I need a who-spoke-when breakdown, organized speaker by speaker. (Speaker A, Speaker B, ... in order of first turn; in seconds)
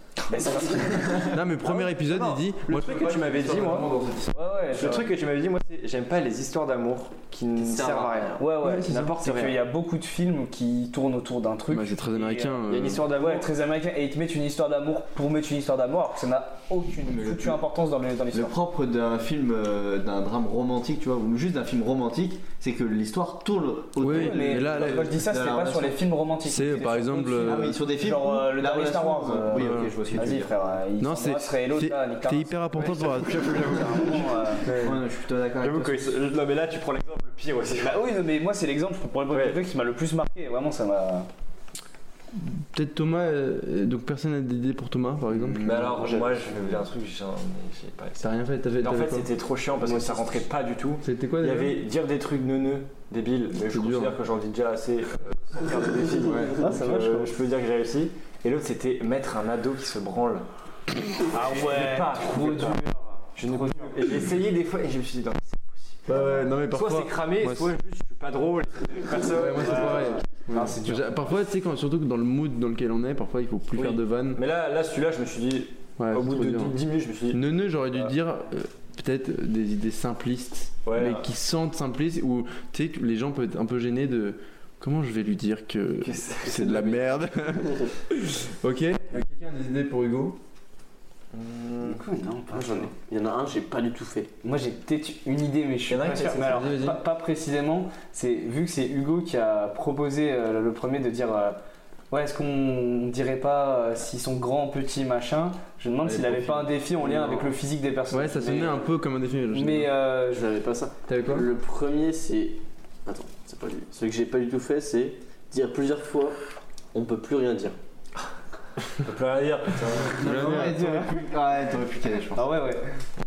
Speaker A: 0.3-1.4, 4.3-5.1, 8.4-18.6, 24.0-34.7, 37.8-41.3, 56.6-57.3, 61.3-64.0, 69.6-71.1, 91.8-92.9, 94.4-101.6, 102.1-108.9, 109.5-110.4, 120.2-121.2, 122.4-122.9
Speaker B: 1.2-4.4, 8.6-9.2, 11.7-13.1, 24.0-25.2, 26.4-27.8, 29.5-30.3, 31.0-34.0, 42.3-46.8, 48.2-49.3, 51.0-51.8, 53.7-54.2, 66.1-67.7, 69.3-74.4, 76.0-76.8, 77.3-90.4, 96.4-97.0, 106.1-106.6, 108.1-110.0, 111.1-111.5, 120.1-120.8
Speaker C: 1.6-3.9, 4.6-8.4, 9.1-9.6, 12.7-13.5, 33.0-35.0, 35.6-38.0, 39.3-39.6, 45.3-48.2, 48.8-60.5, 61.4-62.8, 63.4-70.2, 73.8-77.4, 80.8-81.3, 86.0-87.1, 91.3-92.0, 95.9-96.6, 119.0-120.7
Speaker D: 7.6-8.4, 56.1-56.7, 87.5-87.9, 92.5-94.3, 110.3-116.4, 116.9-117.8
Speaker E: 17.0-17.6, 18.3-26.0, 27.4-30.5, 34.6-36.1, 56.2-56.9, 120.1-122.6